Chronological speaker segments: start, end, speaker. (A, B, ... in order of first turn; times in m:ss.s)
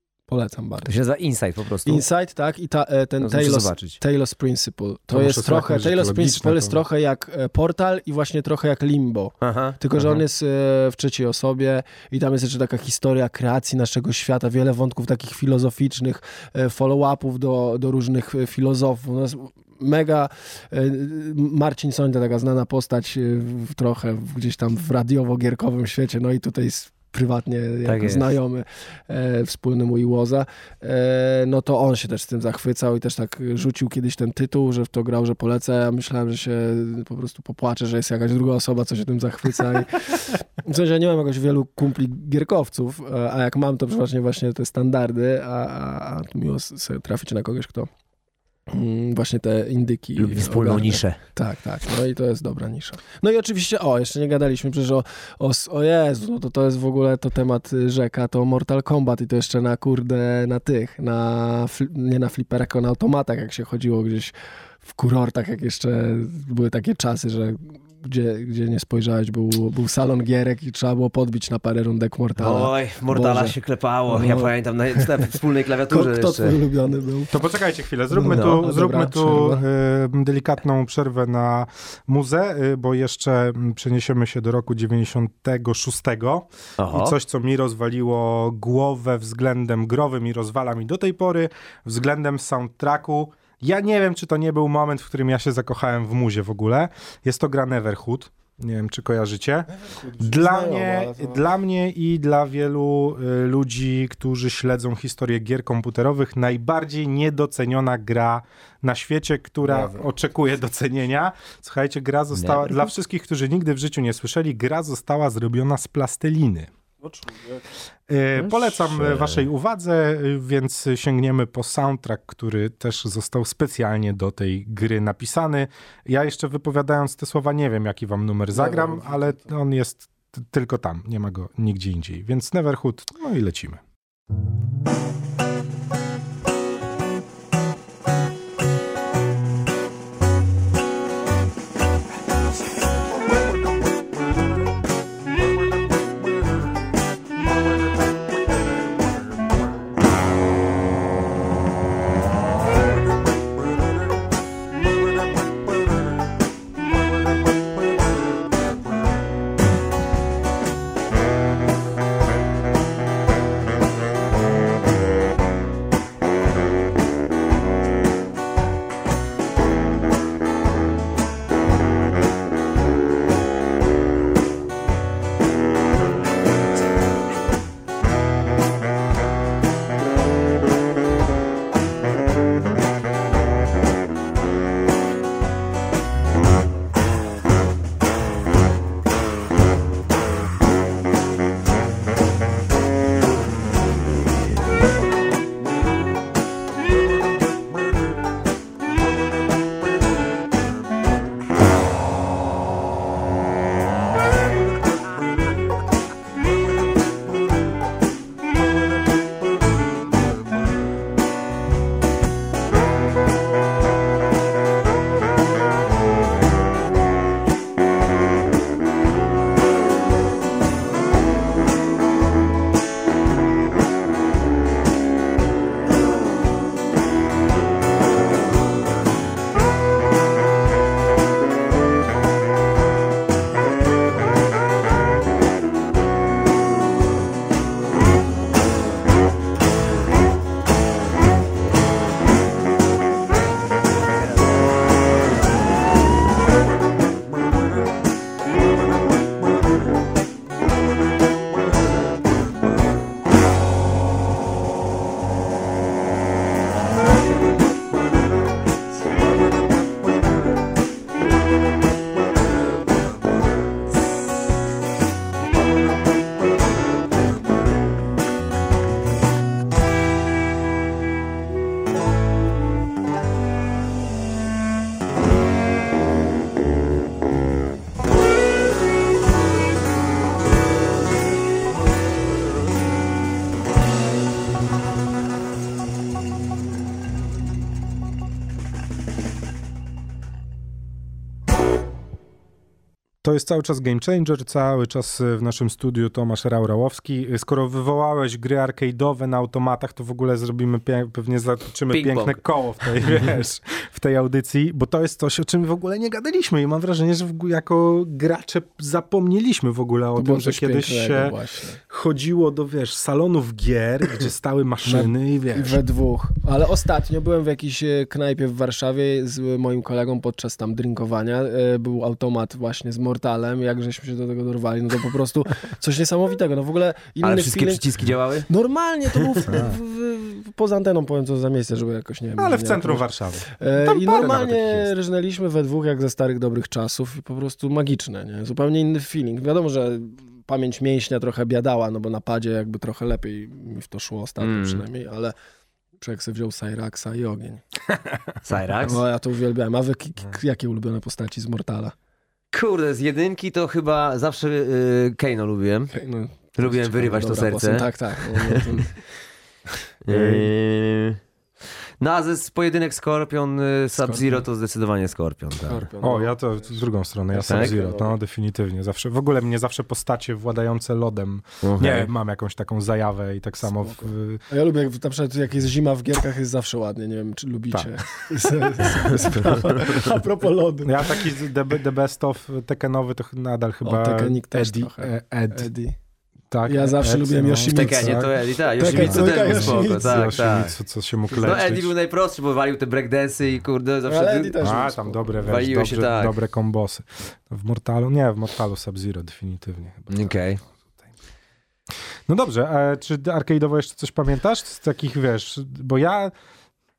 0:00.3-0:01.0 A
0:00.9-0:02.0 B
0:01.8-0:47.9 A
0:03.2-0:04.0 B
0:05.1-0:06.8 C
0:09.4-0:10.2 B
0:27.8-0:28.3 B
0:48.7-1:04.3 A
0:50.2-0:51.2 B
1:04.8-1:13.6 A
1:12.4-1:16.6 B
1:14.1-1:15.0 A
1:15.9-1:17.4 A
1:17.3-1:56.7 C
1:18.1-1:19.6 A
1:18.3-1:18.6 B
1:26.8-1:27.2 B
1:39.8-1:41.5 A
1:49.6-1:50.1 A
1:52.4-1:52.9 B
1:57.0-1:57.6 A
1:58.1-2:13.8 C
1:58.4-1:59.5 B
2:08.5-2:09.5 A
4:53.2-5:11.4 C
5:01.9-5:02.4 B
5:10.2-5:11.8 A
5:11.9-5:15.8 C
5:14.9-5:27.9 A
5:27.2-5:28.5 B
5:28.5-5:45.3 A
5:29.5-5:29.8 C
5:32.4-5:34.9 C
5:44.4-5:44.8 B
5:46.0-5:47.6 A
5:48.0-5:48.3 C
5:48.4-5:49.0 B
5:48.8-5:51.9 A
5:52.5-5:55.9 B
5:55.9-5:58.9 A
5:56.6-5:58.9 B
6:00.0-6:01.2 B
6:00.1-6:00.4 C
6:02.0-6:05.9 B
6:04.0-6:04.4 A
6:05.6-6:08.2 A
6:06.0-6:14.4 C
6:07.5-6:07.8 B
6:11.6-6:12.1 B
6:13.7-6:21.3 A
6:17.7-6:19.5 C
6:19.4-6:19.9 B
6:20.8-6:25.7 C
6:23.8-6:26.0 A
6:26.5-6:31.9 C
6:26.7-6:30.5 A
6:27.7-6:30.8 B
6:31.3-6:31.6 A
6:31.4-6:34.6 B
6:34.1-6:35.7 A
6:34.6-6:40.7 C
6:35.4-6:36.4 B
6:40.1-6:40.6 B
6:42.3-6:46.3 C